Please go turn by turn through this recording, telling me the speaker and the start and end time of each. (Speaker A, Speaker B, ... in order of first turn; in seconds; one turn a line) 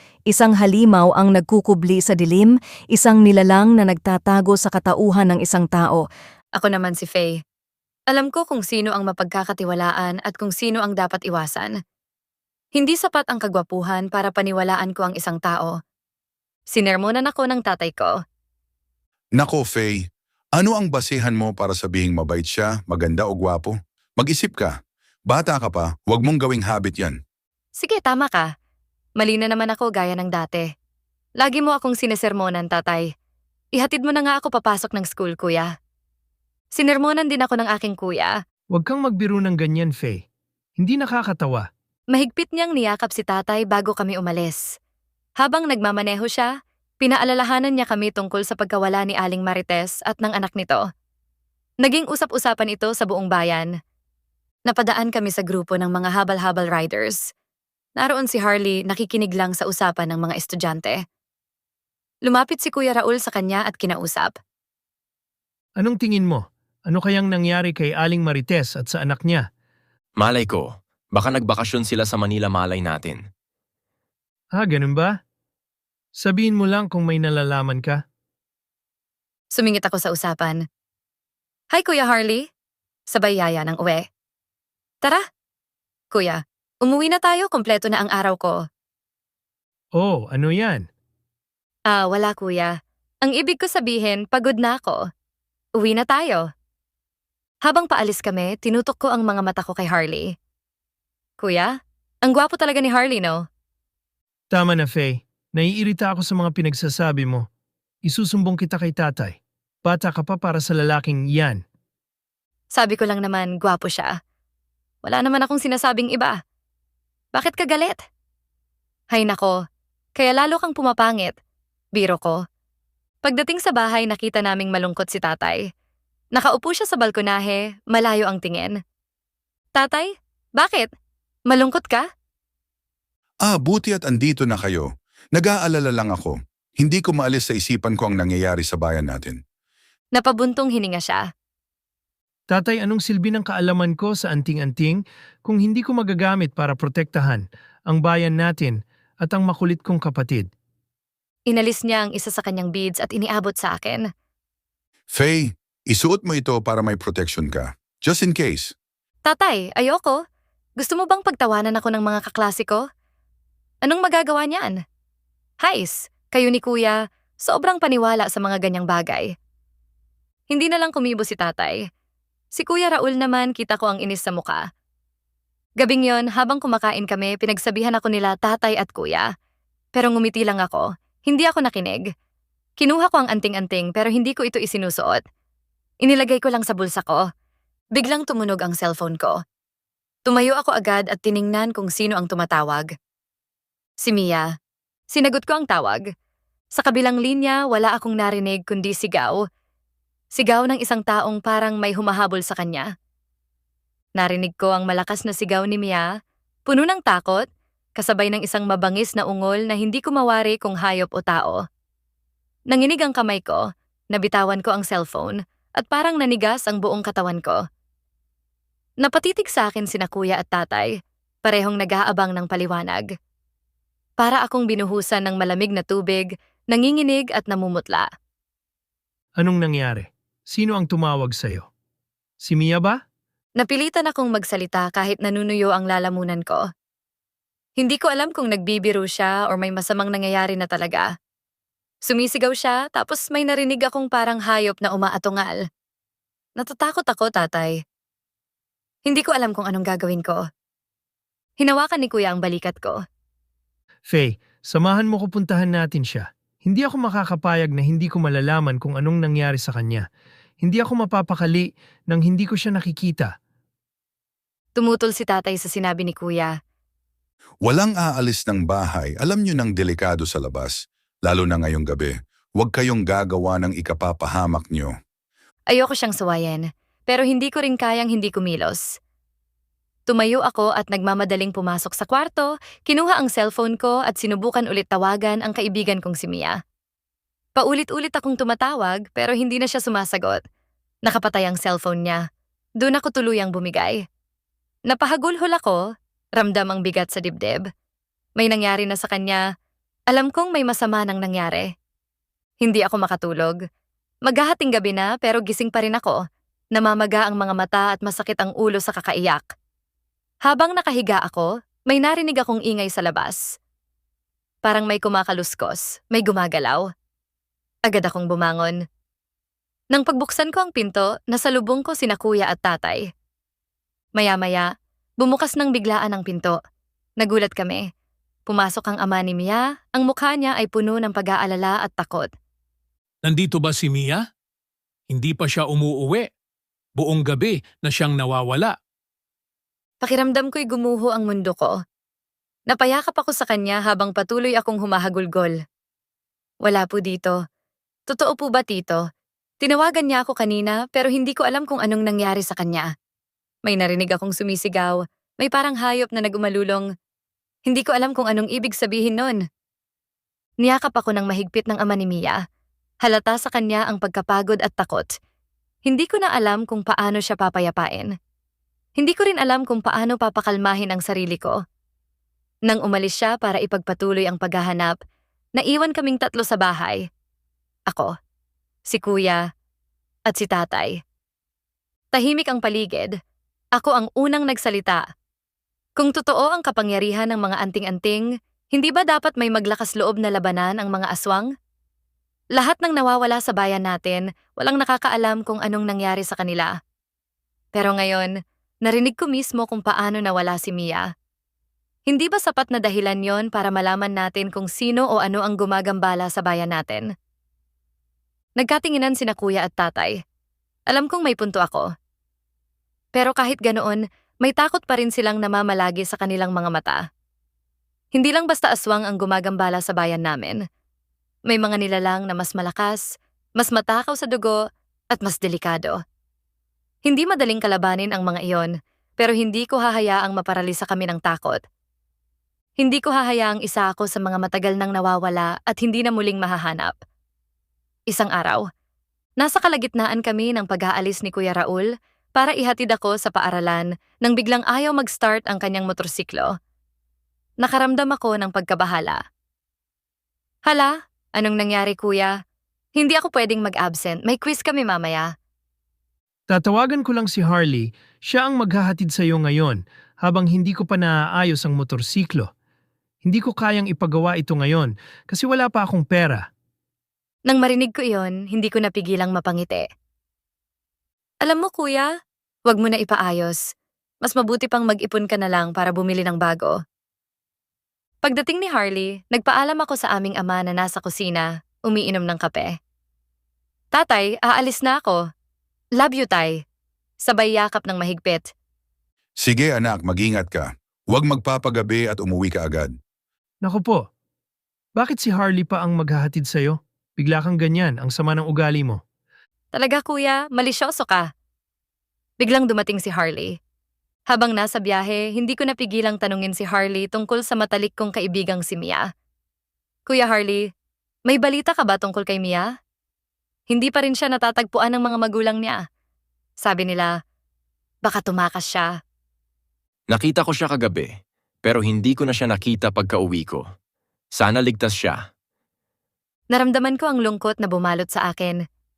Speaker A: 0.3-6.1
Speaker B: 6.6-7.4
Speaker B: 8.1-11.8
Speaker B: 12.8-15.8
Speaker B: 16.7-18.2
Speaker C: 19.4-24.8
Speaker C: 25.3-27.2
Speaker B: 27.8-28.5
Speaker B: 29.2-30.7
Speaker B: 31.4-33.1
Speaker B: 33.8-35.7
Speaker B: 36.8-38.4
Speaker D: 38.7-40.2
Speaker D: 40.8-41.7
Speaker B: 42.1-44.6
Speaker B: 45.4-46.5
Speaker B: 47.0-50.8
Speaker B: 51.8-53.7
Speaker B: 54.7-57.2
Speaker B: 58.0-61.0
Speaker B: 62.3-64.3
Speaker D: 65.8-69.4
Speaker E: 70.2-73.2
Speaker D: 74.6-75.1
Speaker D: 76.2-78.0
Speaker B: 79.5-80.6
Speaker B: 81.7-82.5
Speaker B: 83.1-84.0
Speaker B: 86.1-88.6
Speaker D: 90.0-90.8
Speaker B: 91.9-95.0
Speaker B: 95.8-96.5
Speaker B: 97.7-100.3
Speaker B: 101.4-101.7
Speaker B: 102.2-103.4
Speaker D: 104.5-107.4
Speaker D: 108.1-111.6
Speaker B: 112.8-114.2
Speaker B: 115.0-116.4
Speaker B: 117.3-118.0
Speaker B: 119.1-119.6
Speaker B: 120.2-121.4
Speaker B: 122.0-122.4
Speaker B: 123.2-125.7
Speaker B: 126.4-128.8
Speaker B: 129.8-130.9
Speaker B: 131.5-132.1
Speaker C: 133.4-139.4
Speaker B: 140.2-141.3
Speaker D: 142.5-150.5
Speaker B: 151.5-154.1
Speaker C: 155.1-158.7
Speaker B: 159.3-160.2
Speaker B: 160.8-162.9
Speaker B: 163.8-164.8
Speaker B: 165.6-169.3
Speaker B: 170.5-171.8
Speaker B: 172.6-174.6
Speaker B: 175.8-179.3
Speaker B: 180.0-182.1
Speaker B: 182.8-185.2
Speaker B: 186.0-187.3
Speaker B: 187.9-189.4
Speaker B: 190.3-192.9
Speaker B: 194.0-194.5
Speaker B: 195.1-196.0
Speaker B: 196.8-199.4
Speaker B: 200.4-202.9
Speaker B: 204.2-206.1
Speaker B: 206.7-211.6
Speaker B: 212.7-217.6
Speaker B: 219.0-220.9
Speaker B: 221.4-223.1
Speaker B: 224.2-228.1
Speaker D: 229.4-231.7
Speaker D: 232.4-233.0
Speaker B: 233.6-236.7
Speaker B: 237.8-241.1
Speaker B: 242.1-245.6
Speaker B: 246.6-247.8
Speaker B: 249.1-250.4
Speaker B: 251.6-253.0
Speaker D: 254.1-260.1
Speaker D: 260.6-263.3
Speaker B: 264.8-266.6
Speaker C: 267.7-274.9
Speaker B: 275.7-278.9
Speaker B: 280.1-286.6
Speaker B: 287.6-290.4
Speaker B: 291.1-292.2
Speaker B: 292.8-294.0
Speaker B: 294.9-295.8
Speaker B: 296.4-297.7
Speaker B: 298.4-299.4
Speaker B: 300.1-301.7
Speaker B: 302.6-303.6
Speaker B: 304.3-306.2
Speaker B: 306.8-309.4
Speaker B: 310.5-313.4
Speaker B: 314.6-316.9
Speaker B: 317.9-318.8
Speaker B: 319.9-323.1
Speaker B: 324.2-324.7
Speaker B: 325.2-326.6
Speaker B: 327.2-327.9
Speaker B: 328.5-332.3
Speaker F: 333.2-334.2
Speaker F: 335.1-336.3
Speaker F: 337.0-338.8
Speaker B: 340.0-341.8
Speaker B: 342.7-345.6
Speaker B: 346.6-347.4
Speaker B: 348.1-349.0
Speaker B: 349.6-352.9
Speaker B: 353.7-356.9
Speaker B: 357.7-359.4
Speaker B: 360.6-362.4
Speaker B: 363.0-365.1
Speaker B: 365.9-368.1
Speaker B: 369.0-371.6
Speaker B: 372.7-375.0
Speaker B: 375.6-377.1
Speaker B: 378.9-379.4
Speaker B: 380.3-381.0
Speaker B: 382.1-383.1
Speaker B: 383.8-385.0
Speaker B: 386.0-391.5
Speaker B: 392.6-396.7
Speaker B: 397.7-398.3
Speaker B: 398.9-401.1
Speaker B: 402.1-407.1
Speaker B: 408.6-410.2
Speaker B: 410.9-411.9
Speaker B: 413.2-417.0
Speaker B: 418.1-420.6
Speaker B: 421.5-423.0
Speaker B: 423.6-424.6
Speaker B: 425.1-426.0
Speaker B: 427.1-431.6
Speaker B: 432.8-437.0
Speaker B: 438.1-438.6
Speaker B: 439.4-446.5
Speaker B: 447.6-449.2
Speaker B: 450.7-452.4
Speaker B: 453.0-455.3
Speaker D: 456.5-462.5
Speaker D: 463.2-466.4
Speaker B: 467.5-469.9
Speaker B: 471.4-472.1
Speaker B: 472.7-473.6
Speaker B: 474.2-476.8
Speaker B: 478.2-482.7
Speaker B: 483.9-485.2
Speaker B: 486.0-486.6
Speaker B: 487.2-488.5
Speaker C: 489.4-492.9
Speaker D: 493.6-494.1
Speaker D: 495.0-499.0
Speaker B: 499.7-501.3
Speaker B: 502.4-503.6
Speaker B: 504.3-509.1
Speaker B: 510.1-510.7
Speaker B: 511.3-512.7
Speaker B: 513.7-515.8
Speaker B: 516.6-517.1
Speaker B: 518.0-518.9
Speaker E: 520.1-521.1
Speaker E: 521.6-523.6
Speaker E: 524.4-525.2
Speaker B: 526.5-528.6